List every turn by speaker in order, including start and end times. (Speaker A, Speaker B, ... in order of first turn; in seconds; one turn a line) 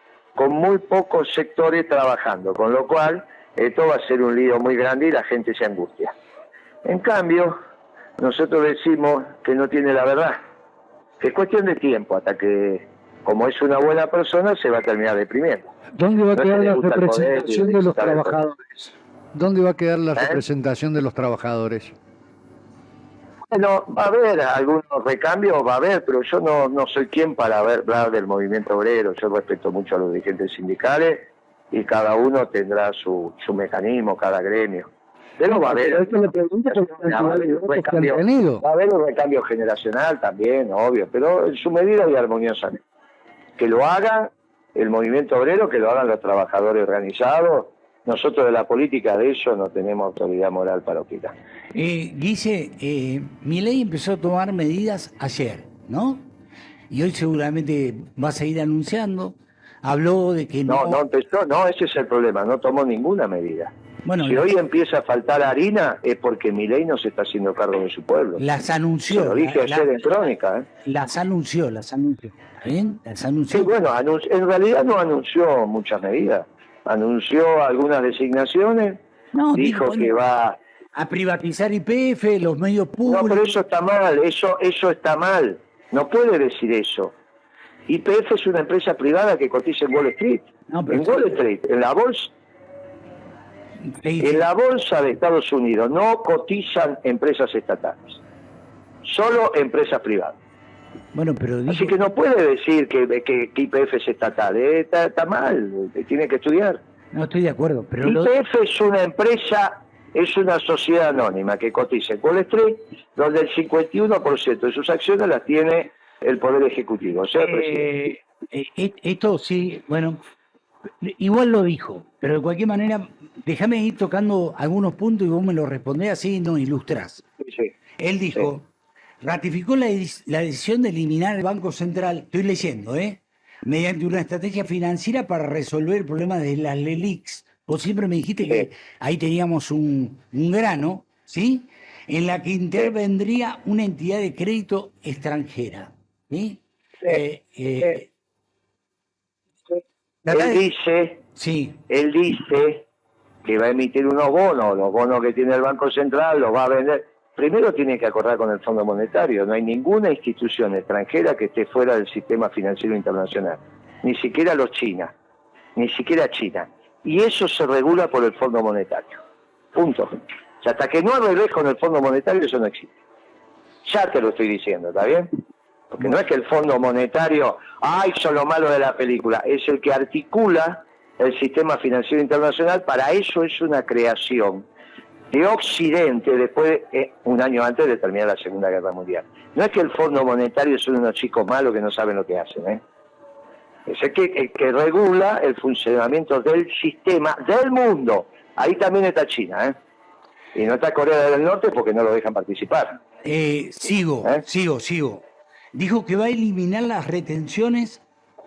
Speaker A: 0.3-6.1
Speaker A: 6.8-7.6
Speaker A: 8.2-10.4
Speaker A: 11.2-15.7
Speaker B: 16.0-21.9
Speaker A: 16.3-18.4
Speaker A: 20.1-20.4
Speaker A: 23.5-42.8
Speaker B: 35.5-38.6
Speaker A: 43.6-51.3
Speaker C: 51.7-56.3
Speaker C: 56.9-61.0
Speaker A: 60.7-63.7
Speaker C: 64.0-64.5
Speaker A: 64.2-68.4
Speaker C: 68.4-70.0
Speaker A: 69.1-70.7
Speaker C: 70.8-73.7
Speaker A: 73.5-79.0
Speaker C: 79.3-80.1
Speaker A: 79.5-80.6
Speaker C: 80.9-83.5
Speaker A: 83.1-87.1
Speaker A: 87.9-92.3
Speaker C: 90.7-91.4
Speaker C: 93.9-94.5
Speaker A: 94.2-98.2
Speaker A: 99.0-100.3
Speaker C: 101.1-101.9
Speaker A: 101.7-106.8
Speaker C: 107.1-108.3
Speaker A: 108.0-117.9
Speaker C: 117.4-120.2
Speaker C: 121.0-127.2
Speaker A: 127.4-127.7
Speaker C: 128.0-128.7
Speaker C: 129.2-148.1
Speaker C: 150.2-150.6
Speaker A: 150.3-151.2
Speaker C: 151.3-151.8
Speaker A: 151.9-152.8
Speaker A: 153.4-165.1
Speaker A: 165.8-169.2
Speaker A: 169.7-172.9
Speaker A: 173.8-175.3
Speaker A: 175.9-184.7
Speaker A: 185.3-192.8
Speaker A: 193.8-199.8
Speaker A: 200.5-203.0
Speaker C: 203.2-208.0